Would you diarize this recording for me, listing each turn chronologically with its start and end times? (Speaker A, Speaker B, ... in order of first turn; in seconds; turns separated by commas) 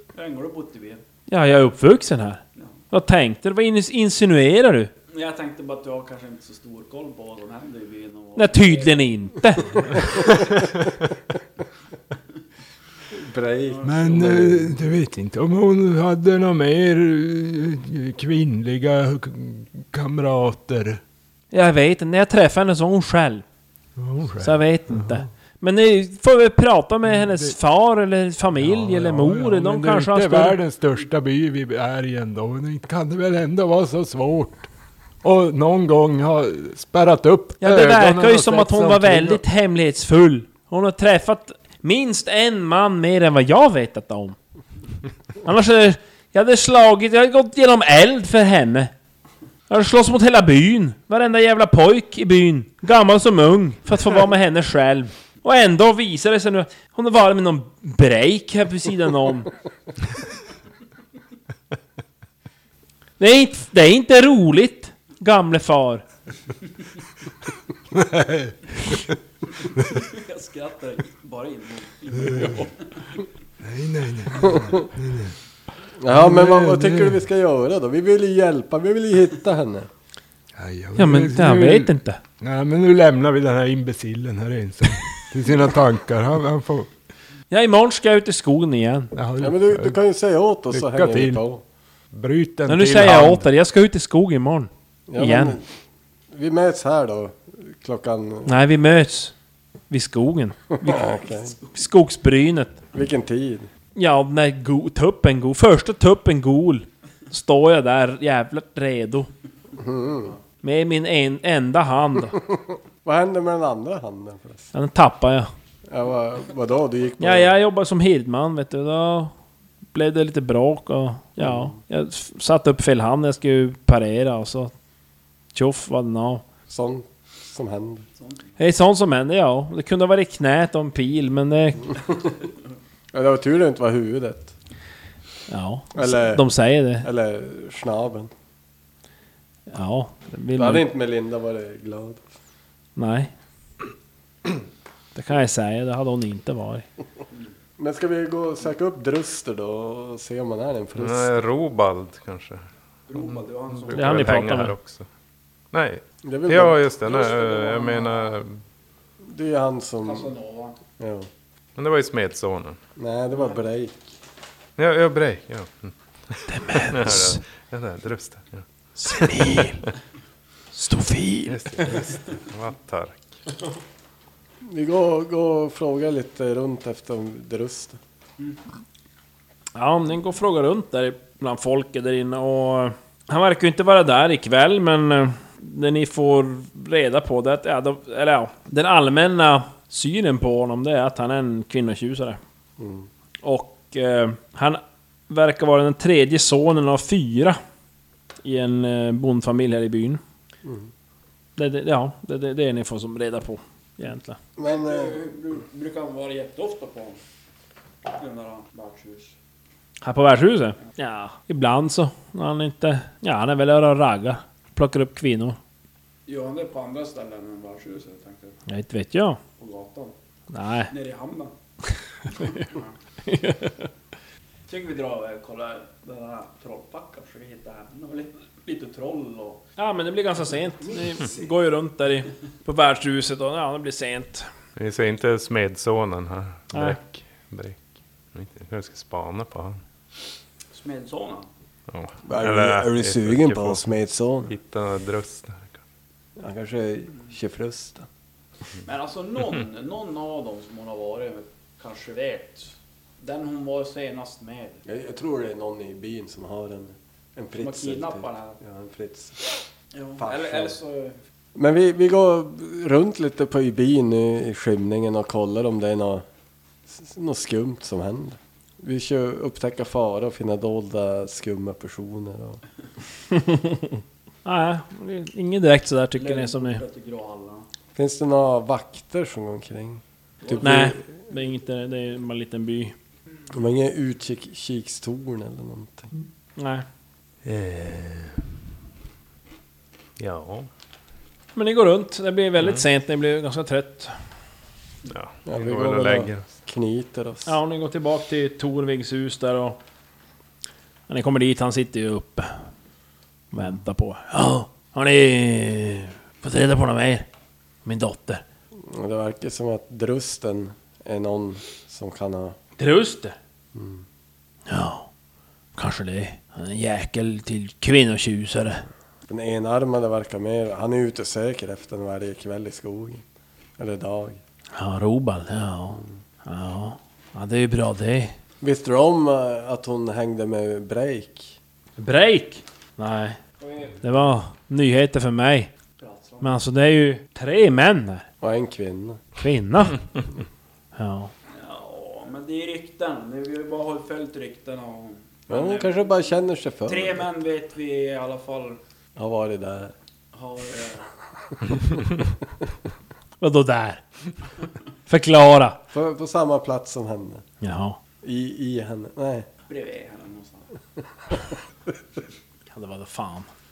Speaker A: 0.1-1.0, Speaker B: 1.3-4.9, Speaker A: 5.1-9.1, Speaker B: 8.3-9.8, Speaker A: 9.6-10.3, Speaker C: 13.1-14.8, Speaker D: 13.8-21.0, Speaker B: 21.5-23.4, Speaker D: 23.9-25.2, Speaker B: 24.4-30.6, Speaker D: 27.1-27.6, Speaker D: 28.6-34.7, Speaker D: 35.2-39.4, Speaker B: 37.6-44.4, Speaker B: 45.4-48.9, Speaker B: 49.7-59.5, Speaker B: 63.2-66.0, Speaker D: 67.9-69.2, Speaker A: 69.6-73.2, Speaker D: 72.1-72.7, Speaker D: 73.6-75.3, Speaker C: 76.0-79.9, Speaker D: 76.1-77.2, Speaker D: 80.5-86.9, Speaker B: 81.0-82.2, Speaker B: 87.5-89.1, Speaker D: 89.1-90.0, Speaker C: 89.4-91.6, Speaker D: 90.7-91.4, Speaker D: 92.1-93.5, Speaker B: 92.7-95.6, Speaker C: 95.1-95.6, Speaker C: 96.3-98.6, Speaker B: 98.5-99.3, Speaker B: 99.9-102.8, Speaker C: 100.8-101.5, Speaker C: 102.9-103.7, Speaker B: 103.9-109.3, Speaker C: 109.8-110.3, Speaker B: 110.6-112.4, Speaker C: 113.0-114.7, Speaker B: 114.7-115.5, Speaker C: 115.9-117.5, Speaker B: 117.2-119.3, Speaker B: 119.9-124.7, Speaker C: 121.4-121.7, Speaker B: 125.5-126.4, Speaker C: 126.7-128.0, Speaker A: 128.2-128.4, Speaker B: 128.6-131.9, Speaker C: 133.1-134.5, Speaker B: 135.5-137.1, Speaker C: 135.9-136.5, Speaker C: 137.0-138.3, Speaker B: 139.7-140.8, Speaker C: 140.6-142.2, Speaker B: 142.9-143.3, Speaker B: 145.1-146.8, Speaker C: 147.8-151.4, Speaker E: 151.0-152.6, Speaker A: 153.1-154.6, Speaker E: 153.1-155.1, Speaker B: 153.9-154.7, Speaker E: 155.7-158.6, Speaker C: 156.2-156.8, Speaker A: 157.0-158.4, Speaker C: 159.2-160.3, Speaker A: 160.0-160.8, Speaker C: 161.0-161.3, Speaker E: 161.8-162.8, Speaker C: 162.9-164.0, Speaker A: 163.3-163.6, Speaker E: 164.8-169.5, Speaker B: 166.5-167.4, Speaker B: 169.0-169.9, Speaker B: 170.7-171.9, Speaker E: 171.4-173.4, Speaker C: 174.7-178.0, Speaker B: 179.7-192.4, Speaker C: 192.8-193.1, Speaker B: 193.4-197.6, Speaker B: 198.4-200.2, Speaker C: 200.6-200.9, Speaker B: 201.6-204.4, Speaker C: 204.6-205.2, Speaker A: 204.6-207.2, Speaker A: 208.1-209.3, Speaker B: 210.0-215.6, Speaker A: 216.3-218.6, Speaker B: 218.7-219.4, Speaker A: 219.6-220.1, Speaker B: 220.5-220.9, Speaker A: 220.9-221.5, Speaker B: 222.3-222.7, Speaker A: 222.5-222.9, Speaker B: 223.2-223.9, Speaker A: 224.7-229.6, Speaker B: 229.8-234.5, Speaker E: 234.8-237.8, Speaker B: 236.7-237.0, Speaker E: 238.3-239.8, Speaker A: 240.7-241.5, Speaker E: 241.9-243.9, Speaker C: 242.2-244.5, Speaker E: 244.5-245.8, Speaker C: 246.4-248.1, Speaker A: 248.8-254.8, Speaker C: 254.8-259.4, Speaker A: 257.6-258.6, Speaker A: 259.9-261.2, Speaker C: 260.2-260.8, Speaker C: 261.5-266.2, Speaker C: 266.9-272.6, Speaker B: 273.3-273.9, Speaker B: 274.4-276.8, Speaker A: 276.2-277.7, Speaker C: 277.9-281.0, Speaker A: 280.4-280.9, Speaker B: 280.6-282.9, Speaker C: 283.5-286.1, Speaker B: 286.6-286.9, Speaker E: 287.4-288.4, Speaker E: 290.2-290.7, Speaker B: 291.5-294.1, Speaker E: 292.6-292.9, Speaker E: 295.1-296.5, Speaker C: 295.4-297.5, Speaker B: 297.4-299.8, Speaker B: 301.1-302.5, Speaker B: 303.5-307.3, Speaker B: 307.8-308.4, Speaker C: 308.8-312.6, Speaker B: 312.8-313.4, Speaker C: 313.7-314.0, Speaker B: 314.7-315.1, Speaker B: 315.8-318.8, Speaker C: 319.3-323.2, Speaker C: 323.8-324.4, Speaker B: 324.7-328.4, Speaker C: 328.6-331.6, Speaker B: 332.0-333.4, Speaker A: 333.6-334.0, Speaker B: 334.0-335.7, Speaker A: 336.0-336.5, Speaker B: 336.4-338.3, Speaker C: 338.4-339.2, Speaker B: 339.4-340.0, Speaker B: 340.9-341.3, Speaker A: 341.5-348.8, Speaker C: 345.5-347.2, Speaker C: 349.1-349.9, Speaker A: 350.3-351.1, Speaker B: 353.4-354.0, Speaker B: 355.1-355.8, Speaker C: 355.9-357.4, Speaker B: 357.6-358.0, Speaker C: 358.2-359.5, Speaker A: 359.7-360.7, Speaker B: 362.7-363.5